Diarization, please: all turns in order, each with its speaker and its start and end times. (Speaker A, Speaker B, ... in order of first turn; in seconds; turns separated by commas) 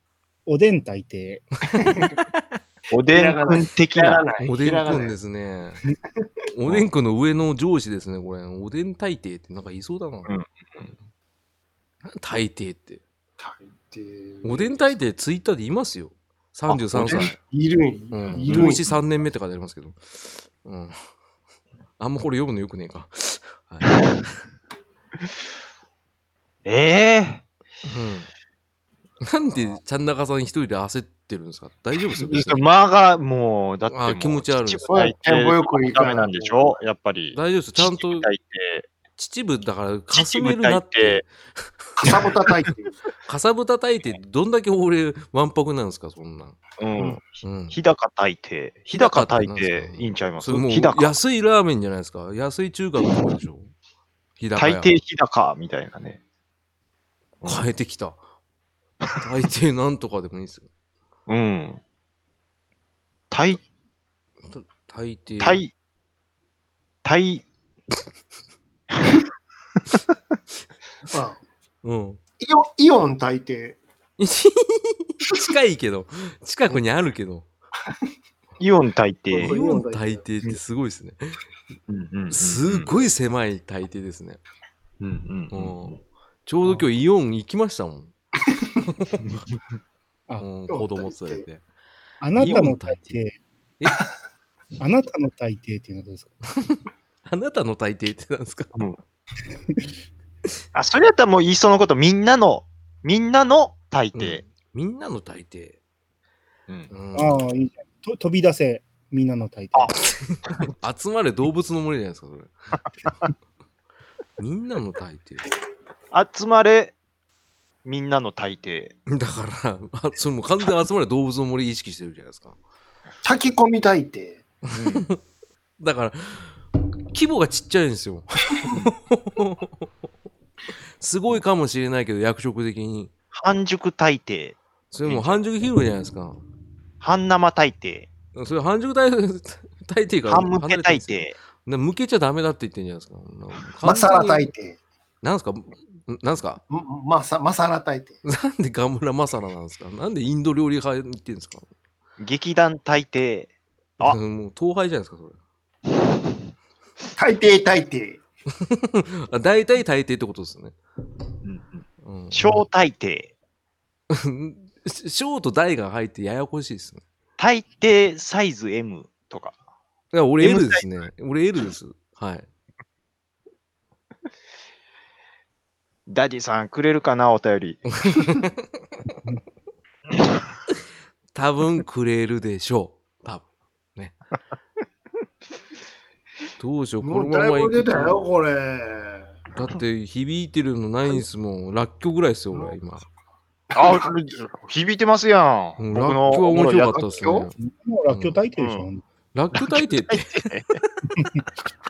Speaker A: 0.5-2.0, Speaker B: 1.6-2.4, Speaker C: 1.8-2.1, Speaker D: 2.9-4.2, Speaker C: 3.1-5.1, Speaker B: 4.4-5.8, Speaker B: 6.5-10.3, Speaker D: 10.3-10.9, Speaker B: 12.0-13.0, Speaker C: 13.4-14.9, Speaker B: 14.4-17.4, Speaker D: 16.7-17.3, Speaker C: 17.0-18.8, Speaker B: 18.1-20.9, Speaker D: 18.3-18.8, Speaker B: 22.0-24.4, Speaker D: 23.9-24.1, Speaker D: 26.6-27.4, Speaker B: 27.8-28.3, Speaker B: 29.2-32.6, Speaker D: 32.2-38.9, Speaker B: 33.9-34.9, Speaker C: 34.9-36.7, Speaker B: 37.3-38.3, Speaker B: 39.2-42.3, Speaker D: 40.1-41.2, Speaker C: 42.0-42.9, Speaker B: 43.3-46.6, Speaker D: 46.8-51.1, Speaker C: 47.0-47.2, Speaker B: 47.4-47.8, Speaker B: 48.9-53.7, Speaker B: 54.4-54.9, Speaker D: 54.5-56.2, Speaker D: 57.4-57.7, Speaker B: 57.4-58.2, Speaker B: 59.2-60.6, Speaker D: 61.3-61.8, Speaker D: 63.3-63.6, Speaker B: 64.5-65.6, Speaker D: 65.4-65.7, Speaker D: 67.0-67.4, Speaker C: 71.1-71.4, Speaker B: 71.8-72.2, Speaker C: 72.4-73.8, Speaker B: 74.2-77.4, Speaker D: 78.6-79.6, Speaker C: 79.3-80.2, Speaker B: 79.4-81.4, Speaker D: 81.9-82.9, Speaker B: 82.3-84.4, Speaker D: 85.0-86.0, Speaker B: 85.5-88.1, Speaker B: 88.9-89.3, Speaker B: 90.4-91.6, Speaker C: 90.7-91.4, Speaker A: 92.2-93.4, Speaker B: 92.3-93.2, Speaker B: 93.8-94.0, Speaker A: 94.8-96.3, Speaker B: 96.5-98.7, Speaker D: 100.7-104.4, Speaker B: 104.1-105.8, Speaker B: 106.9-107.4, Speaker A: 107.1-110.0, Speaker B: 109.9-112.5, Speaker B: 114.4-115.4, Speaker D: 116.1-116.9, Speaker D: 117.8-118.9, Speaker B: 119.1-122.5, Speaker C: 123.2-124.4, Speaker B: 124.7-125.2, Speaker D: 124.7-125.0, Speaker B: 125.8-126.6, Speaker B: 127.1-129.8, Speaker B: 131.0-133.1, Speaker D: 133.3-135.4, Speaker B: 134.9-136.4, Speaker D: 137.0-138.1, Speaker B: 138.3-144.5, Speaker D: 140.2-141.3, Speaker C: 143.8-144.8, Speaker B: 145.2-146.6, Speaker C: 146.7-148.2, Speaker B: 148.2-151.6, Speaker D: 152.2-154.2, Speaker B: 154.0-155.4, Speaker C: 157.2-158.2, Speaker B: 158.6-160.8, Speaker D: 161.4-163.3, Speaker B: 162.0-162.6, Speaker B: 164.1-167.0, Speaker D: 167.4-169.6, Speaker B: 170.1-172.4, Speaker D: 170.4-170.9, Speaker D: 176.1-177.8, Speaker B: 178.0-178.5, Speaker B: 181.3-183.4, Speaker B: 186.6-188.2, Speaker C: 187.0-189.4, Speaker B: 189.5-193.1, Speaker D: 193.7-197.1, Speaker C: 193.8-194.1, Speaker B: 195.8-197.5, Speaker C: 196.9-197.5, Speaker A: 197.6-199.0, Speaker B: 198.1-198.4, Speaker D: 198.6-198.9, Speaker B: 199.3-200.4, Speaker D: 200.1-200.8, Speaker A: 201.2-201.4